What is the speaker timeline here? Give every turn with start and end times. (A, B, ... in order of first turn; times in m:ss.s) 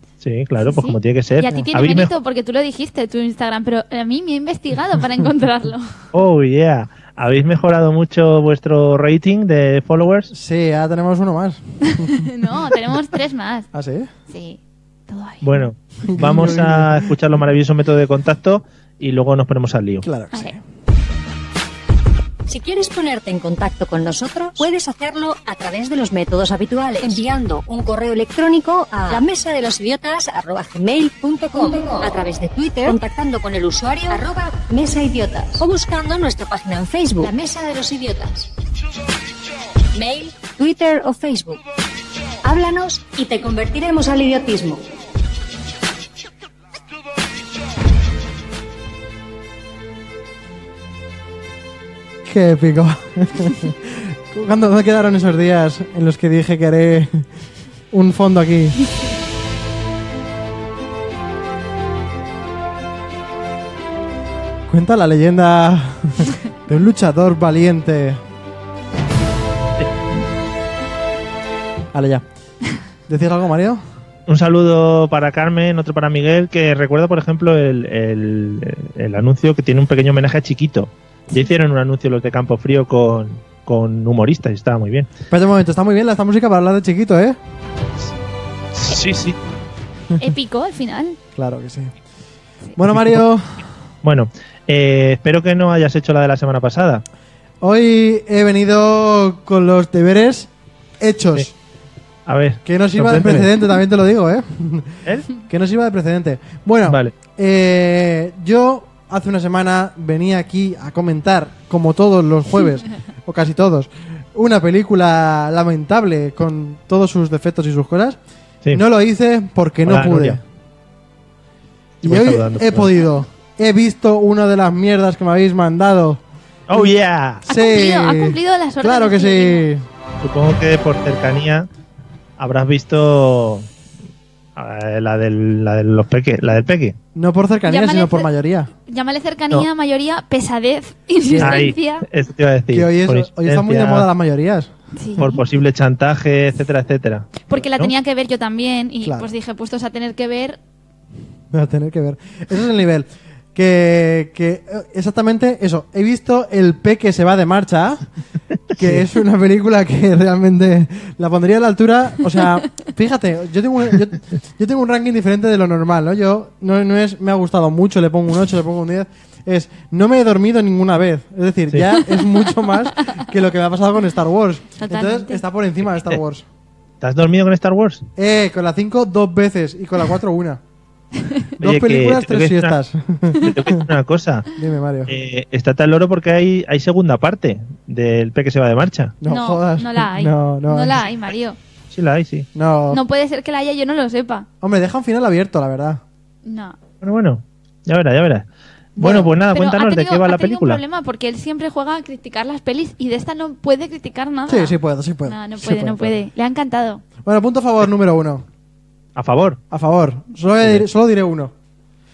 0:00.2-0:02.1 A
0:00.6-0:05.9 B
0:06.1-0:10.3 A
0:10.3-0:12.2 C
0:11.8-0:13.7 B
0:13.7-0:14.1 C
0:14.3-0:15.7 B
0:15.4-0:20.0 A
0:16.0-0:17.1 C
0:20.0-0:20.6 C
0:22.5-0:38.5 D
0:39.9-0:41.6 D
0:42.4-0:44.8 D
0:52.2-0:57.3 C
0:57.9-0:58.8 C
1:04.7-1:08.2 C
1:11.9-1:12.2 C
1:13.1-1:13.8 C
1:14.3-1:25.1 A
1:25.3-1:27.4 C
1:28.8-1:29.4 A
1:30.1-1:31.2 B
1:31.4-1:31.9 C
1:32.8-1:33.6 C
1:32.9-1:33.2 A
1:34.0-1:37.0 A
1:37.6-1:41.5 C
1:42.3-1:43.5 A
1:42.6-1:58.2 C
1:46.9-1:47.1 A
1:58.7-2:00.4 C
1:59.9-2:00.4 A
2:02.0-2:02.9 A
2:02.0-2:06.9 C
2:06.7-2:07.4 A
2:07.4-2:09.8 C
2:07.5-2:09.7 B
2:10.2-2:11.7 A
2:12.4-2:13.7 A
2:14.6-2:17.0 A
2:17.2-2:18.7 C
2:17.7-2:18.3 B
2:18.9-2:22.1 B
2:21.2-2:21.6 C
2:21.4-2:24.1 A
2:22.7-2:24.7 C
2:25.0-2:25.4 B
2:25.2-2:27.9 A
2:27.5-2:30.6 B
2:29.0-2:29.3 C
2:31.5-2:38.1 C
2:38.7-2:39.0 A
2:38.8-2:56.4 C
2:54.8-2:55.4 B
2:57.0-2:58.1 A
2:58.2-3:00.6 C
3:01.6-3:03.9 C
3:01.6-3:02.8 A
3:03.4-3:04.5 A
3:04.5-3:05.1 C
3:05.1-3:09.2 A
3:09.2-3:11.0 C
3:09.3-3:11.6 B
3:11.9-3:12.5 A
3:12.6-3:13.0 C
3:12.9-3:14.5 B
3:14.6-3:16.0 C
3:16.4-3:16.8 B
3:17.0-3:20.8 A
3:19.0-3:19.3 C
3:19.5-3:24.8 B
3:24.5-3:26.1 C
3:25.3-3:27.0 B
3:27.2-3:28.5 C
3:29.2-3:29.6 A
3:29.7-3:31.5 C
3:30.6-3:30.9 A